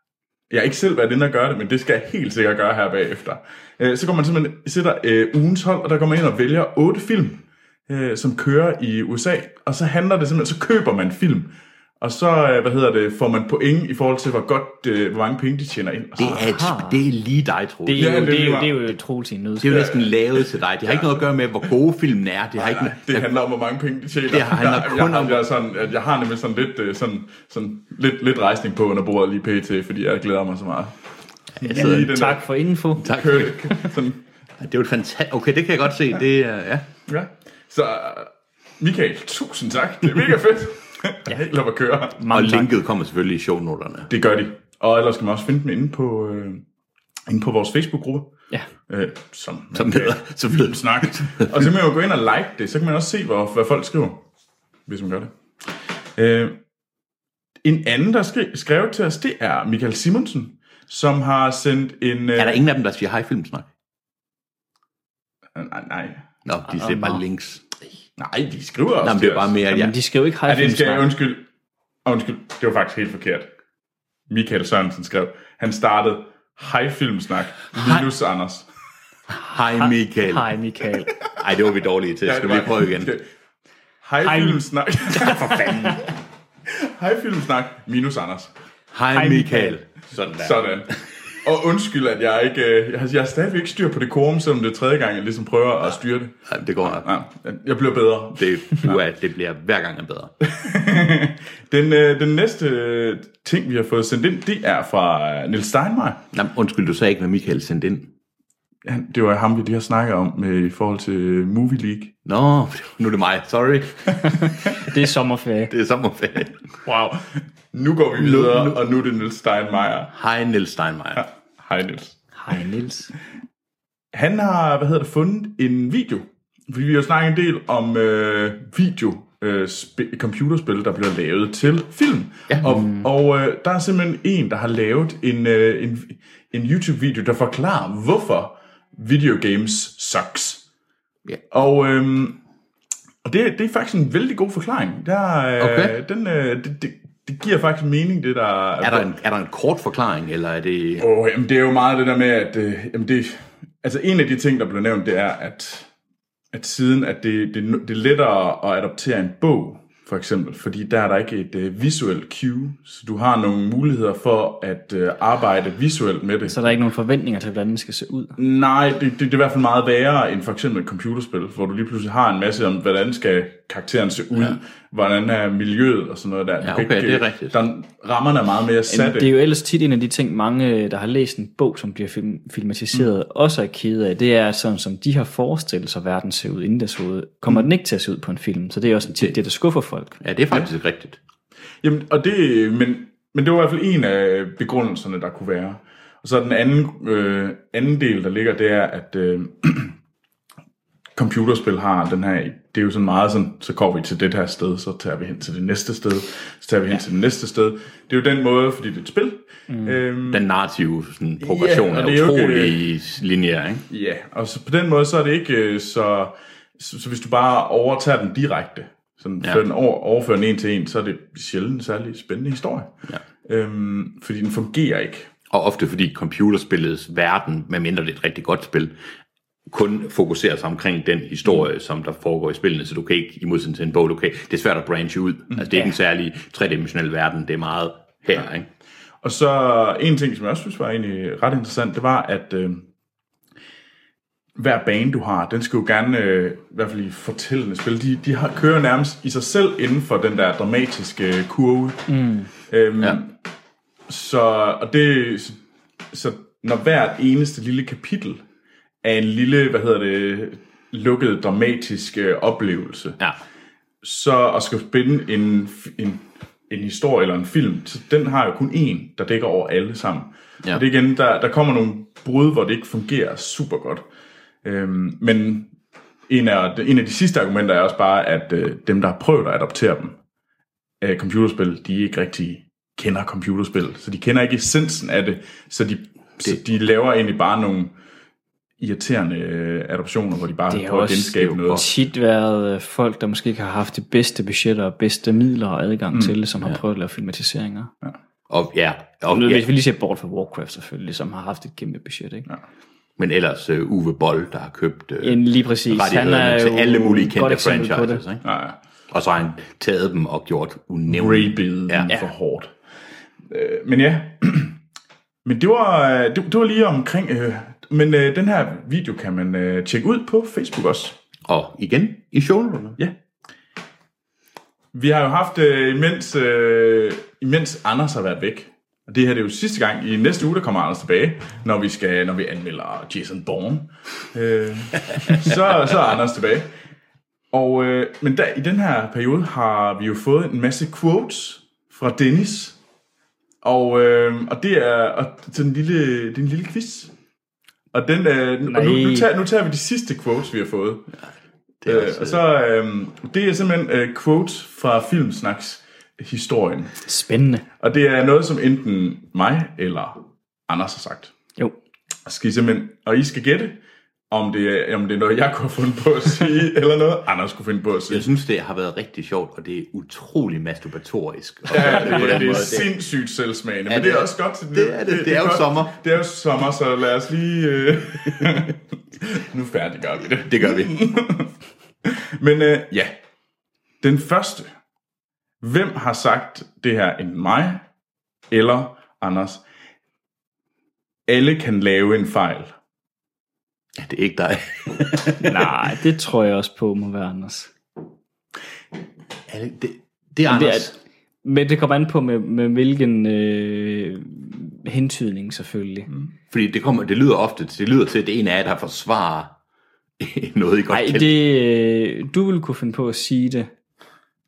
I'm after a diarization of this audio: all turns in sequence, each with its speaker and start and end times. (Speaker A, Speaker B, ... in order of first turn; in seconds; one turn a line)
Speaker A: 0.5-16.4
Speaker B: 16.2-18.2
Speaker C: 16.2-17.0
Speaker C: 17.9-19.9
Speaker A: 18.0-18.8
Speaker B: 19.6-23.3
Speaker A: 19.7-21.2
Speaker A: 22.6-30.9
Speaker B: 24.3-25.5
Speaker A: 31.6-32.5
Speaker B: 31.6-32.4
Speaker C: 31.7-33.1
Speaker B: 33.0-33.7
Speaker A: 33.0-34.2
Speaker B: 34.6-36.9
Speaker A: 37.1-42.2
Speaker C: 42.2-42.7
Speaker B: 42.3-44.1
Speaker A: 44.1-46.6
Speaker A: 47.3-48.3
Speaker A: 48.9-54.2
Speaker B: 49.7-51.6
Speaker A: 54.9-55.3
Speaker A: 56.2-56.6
Speaker A: 57.6-62.6
Speaker B: 62.4-63.7
Speaker A: 65.5-66.2
Speaker B: 66.5-67.7
Speaker C: 66.7-67.2
Speaker A: 68.2-69.6
Speaker B: 69.0-70.0
Speaker C: 69.7-71.1
Speaker A: 70.5-71.5
Speaker A: 72.0-73.5
Speaker A: 74.3-78.7
Speaker B: 79.3-80.5
Speaker C: 79.8-81.1
Speaker B: 81.4-83.1
Speaker A: 82.2-83.3
Speaker A: 84.0-86.0
Speaker C: 84.2-84.6
Speaker C: 85.2-86.0
Speaker A: 86.7-88.5
Speaker B: 88.9-90.7
Speaker C: 89.1-89.8
Speaker A: 90.4-90.9
Speaker A: 91.4-99.0
Speaker B: 96.5-97.0
Speaker B: 98.4-100.3
Speaker A: 100.5-106.2
Speaker B: 106.3-108.1
Speaker A: 108.8-112.1
Speaker B: 112.2-114.6
Speaker C: 114.2-115.7
Speaker B: 115.7-116.8
Speaker A: 116.8-120.1
Speaker B: 118.2-118.8
Speaker B: 120.1-121.2
Speaker A: 121.2-122.2
Speaker C: 122.4-123.1
Speaker A: 124.1-140.6
Speaker C: 132.6-133.1
Speaker A: 141.5-142.4
Speaker A: 143.2-149.1
Speaker B: 145.6-145.9
Speaker B: 148.8-151.1
Speaker A: 151.0-155.9
Speaker A: 156.5-166.6
Speaker C: 166.5-168.4
Speaker A: 168.4-179.3
Speaker B: 176.6-177.6
Speaker C: 178.9-190.2
Speaker B: 190.2-191.2
Speaker A: 191.8-199.9
Speaker A: 201.2-210.4
Speaker C: 209.7-210.0
Speaker B: 210.3-213.8
Speaker A: 211.4-212.8
Speaker A: 213.9-222.9
Speaker A: 223.4-225.3
Speaker B: 225.5-228.9
Speaker B: 229.7-238.7
Speaker A: 239.2-242.9
Speaker A: 244.6-252.1
Speaker C: 252.1-252.5
Speaker A: 252.6-253.4
Speaker A: 254.1-258.4
Speaker A: 259.0-263.2
Speaker A: 264.0-274.1
Speaker A: 274.6-275.7
Speaker A: 276.3-280.2
Speaker A: 281.0-288.0
Speaker A: 288.8-291.9
Speaker C: 290.7-297.9
Speaker B: 298.5-299.7
Speaker C: 299.3-302.5
Speaker B: 303.2-308.5
Speaker C: 305.2-308.2
Speaker A: 308.4-308.8
Speaker B: 309.1-312.1
Speaker A: 311.1-312.7
Speaker C: 312.1-312.3
Speaker A: 313.5-314.8
Speaker A: 315.4-321.2
Speaker B: 321.5-323.0
Speaker A: 324.9-336.7
Speaker A: 337.5-342.8
Speaker A: 343.6-347.1
Speaker A: 347.9-351.1
Speaker C: 348.6-349.3
Speaker B: 351.8-352.4
Speaker A: 351.9-357.0
Speaker C: 357.1-357.6
Speaker A: 357.8-361.3
Speaker A: 362.3-363.8
Speaker A: 364.3-368.3
Speaker B: 368.1-372.9
Speaker A: 371.7-381.5
Speaker B: 373.9-376.0
Speaker B: 380.5-380.9
Speaker A: 382.0-383.1
Speaker A: 384.0-384.7
Speaker A: 385.6-387.8
Speaker A: 388.5-389.6
Speaker A: 391.3-392.7
Speaker B: 394.0-395.7
Speaker C: 395.4-397.7
Speaker B: 399.5-401.0
Speaker C: 400.5-400.9
Speaker C: 401.4-406.1
Speaker B: 406.5-409.5
Speaker B: 410.2-411.4
Speaker C: 410.9-413.7